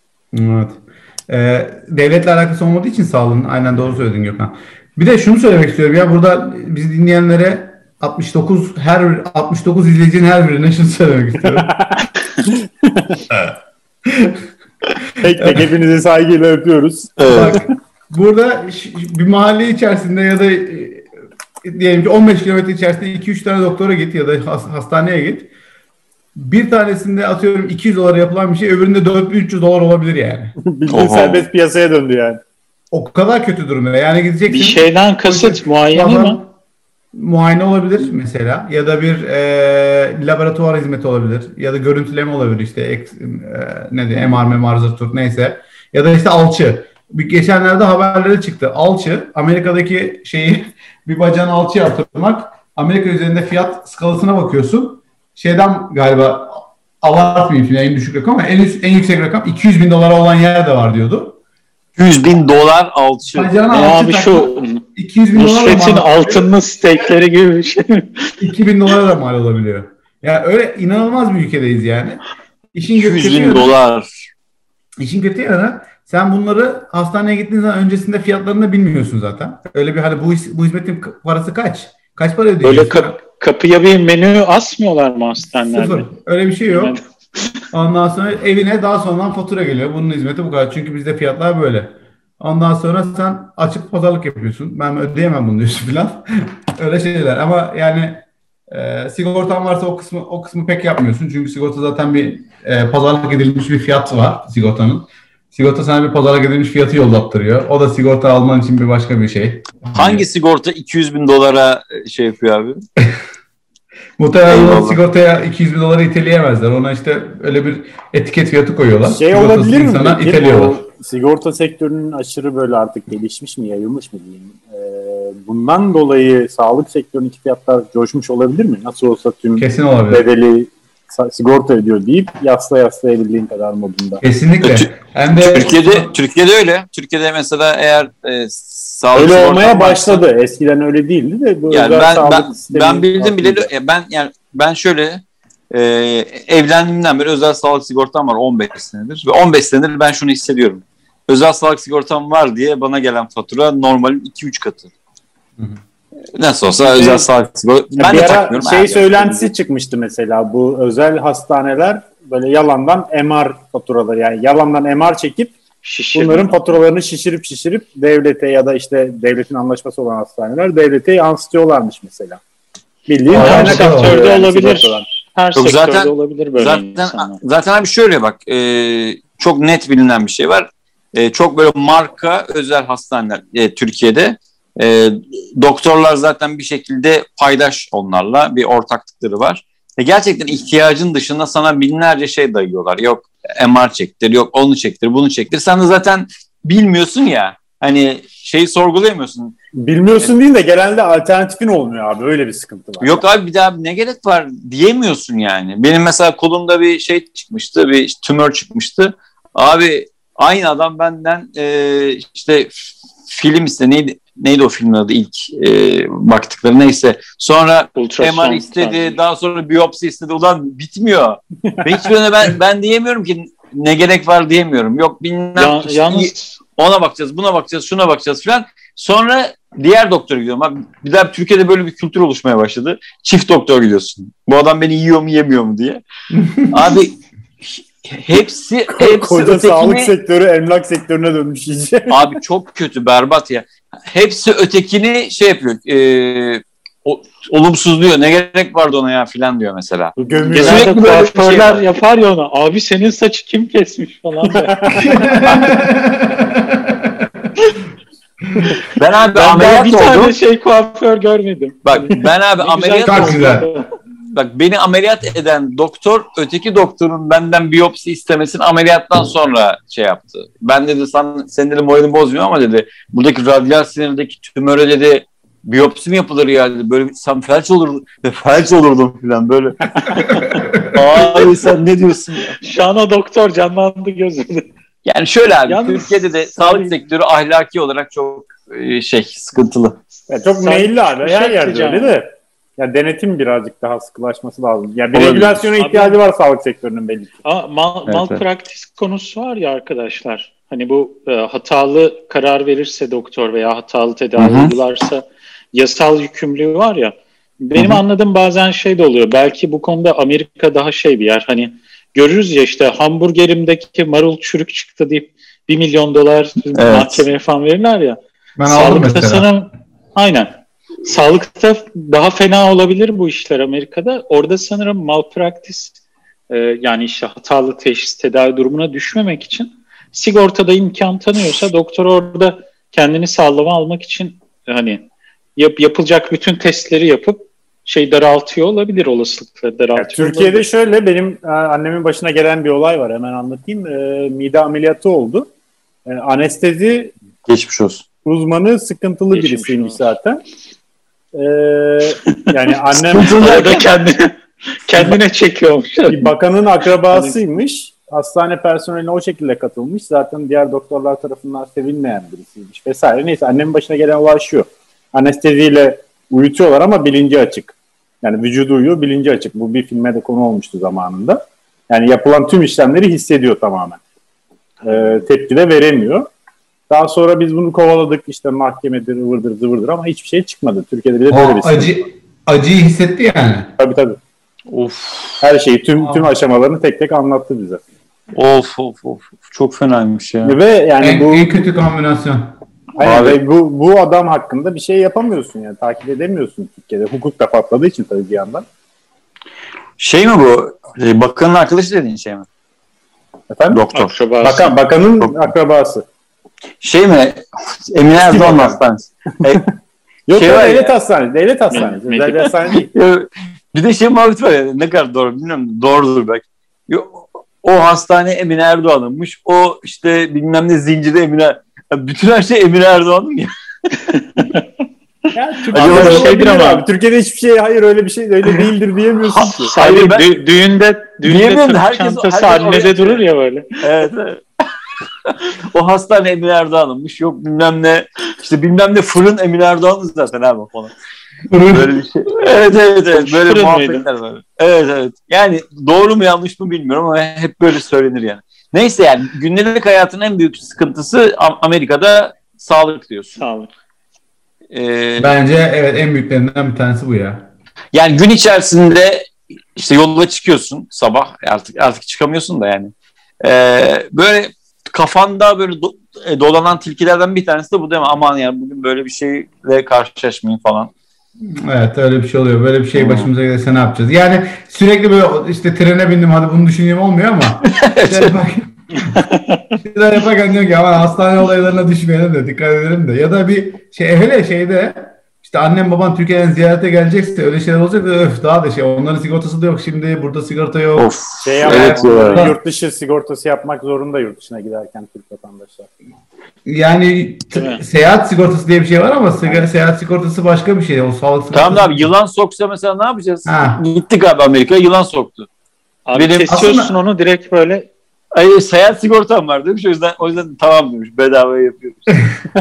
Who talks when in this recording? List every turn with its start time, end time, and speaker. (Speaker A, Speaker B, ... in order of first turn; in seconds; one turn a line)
Speaker A: 0.3-11.7
Speaker B: 11.4-13.2
Speaker A: 14.1-14.4
Speaker B: 15.2-17.7
Speaker A: 15.3-15.7
Speaker C: 17.2-17.6
Speaker A: 17.3-21.1
Speaker A: 21.6-25.5
Speaker A: 26.4-30.6
Speaker B: 30.6-32.4
Speaker C: 30.9-31.5
Speaker A: 32.9-36.5
Speaker D: 34.5-36.4
Speaker A: 37.1-61.4
Speaker C: 62.0-63.6
Speaker A: 63.3-66.5
Speaker D: 63.7-64.8
Speaker D: 65.3-68.3
Speaker A: 68.4-72.2
Speaker A: 72.7-73.7
Speaker C: 72.9-74.1
Speaker A: 75.0-83.2
Speaker D: 82.6-86.1
Speaker A: 85.7-87.0
Speaker D: 86.7-87.5
Speaker A: 87.7-110.3
Speaker C: 110.0-112.8
Speaker A: 114.2-120.8
Speaker C: 114.5-115.0
Speaker B: 119.1-134.2
Speaker A: 129.6-130.3
Speaker A: 134.2-136.1
Speaker C: 134.6-140.2
Speaker B: 139.2-143.7
Speaker C: 141.7-154.9
Speaker C: 156.3-159.5
Speaker B: 158.0-165.6
Speaker D: 165.8-166.5
Speaker B: 166.1-172.4
Speaker B: 173.1-175.1
Speaker A: 173.3-174.2
Speaker D: 173.3-177.4
Speaker C: 175.6-199.6
Speaker B: 199.8-203.2
Speaker C: 203.0-236.0
Speaker D: 218.0-219.2
Speaker D: 225.6-226.6
Speaker A: 236.3-236.8
Speaker C: 236.7-240.1
Speaker B: 239.0-242.3
Speaker C: 242.1-251.8
Speaker B: 250.2-250.9
Speaker D: 250.5-255.0
Speaker B: 254.5-255.1
Speaker A: 255.0-257.5
Speaker C: 258.9-260.4
Speaker D: 259.4-263.9
Speaker C: 261.9-263.6
Speaker A: 263.1-263.6
Speaker C: 264.3-282.6
Speaker A: 280.3-281.0
Speaker D: 282.6-284.7
Speaker C: 285.1-290.0
Speaker D: 285.7-286.9
Speaker B: 290.3-297.4
Speaker D: 290.6-292.2
Speaker C: 295.1-295.6
Speaker D: 295.8-296.2
Speaker D: 297.4-326.0
Speaker C: 298.1-298.4
Speaker C: 304.4-304.7
Speaker C: 307.8-308.0
Speaker C: 316.8-317.3
Speaker A: 318.6-319.5
Speaker D: 326.5-340.7
Speaker B: 340.0-345.5
Speaker B: 346.1-347.1
Speaker C: 347.5-348.1
Speaker B: 348.2-350.4
Speaker D: 349.3-350.0
Speaker B: 351.3-353.4
Speaker C: 352.9-353.9
Speaker D: 353.4-356.3
Speaker B: 356.1-374.0
Speaker D: 357.1-357.4
Speaker B: 374.8-376.3
Speaker B: 376.9-381.9
Speaker A: 381.3-383.7
Speaker B: 383.8-384.2
Speaker C: 384.7-385.4
Speaker B: 385.4-387.8
Speaker A: 386.0-386.2
Speaker C: 388.3-390.6
Speaker B: 390.4-391.5
Speaker A: 391.0-392.6
Speaker B: 393.0-398.7
Speaker C: 393.0-393.4
Speaker C: 400.0-402.5
Speaker B: 403.5-403.8
Speaker C: 403.7-404.1
Speaker D: 403.9-404.8
Speaker B: 404.4-406.1
Speaker C: 406.8-409.6
Speaker B: 408.2-408.8
Speaker B: 410.3-412.9
Speaker C: 410.3-410.9
Speaker D: 411.7-412.5
Speaker C: 412.7-423.5
Speaker D: 424.1-424.6
Speaker B: 425.3-429.7
Speaker C: 425.7-426.4
Speaker D: 425.7-426.8
Speaker D: 429.4-433.8
Speaker C: 429.6-430.3
Speaker C: 431.2-433.2
Speaker C: 433.8-434.4
Speaker C: 435.3-440.9
Speaker A: 441.5-442.0
Speaker C: 441.7-453.4
Speaker D: 443.1-444.1
Speaker D: 453.4-453.7
Speaker C: 454.7-455.3
Speaker A: 455.2-457.5
Speaker C: 457.9-470.9
Speaker A: 471.4-479.2
Speaker C: 472.9-473.3
Speaker C: 477.7-478.4
Speaker D: 479.3-479.6
Speaker A: 479.8-491.1
Speaker C: 491.0-492.5
Speaker B: 491.4-495.9
Speaker A: 491.6-492.6
Speaker A: 496.7-502.1
Speaker D: 497.5-497.8
Speaker C: 501.5-505.5
Speaker A: 503.5-503.8
Speaker D: 506.1-507.9
Speaker C: 506.1-506.5
Speaker A: 506.5-507.0
Speaker C: 508.3-512.1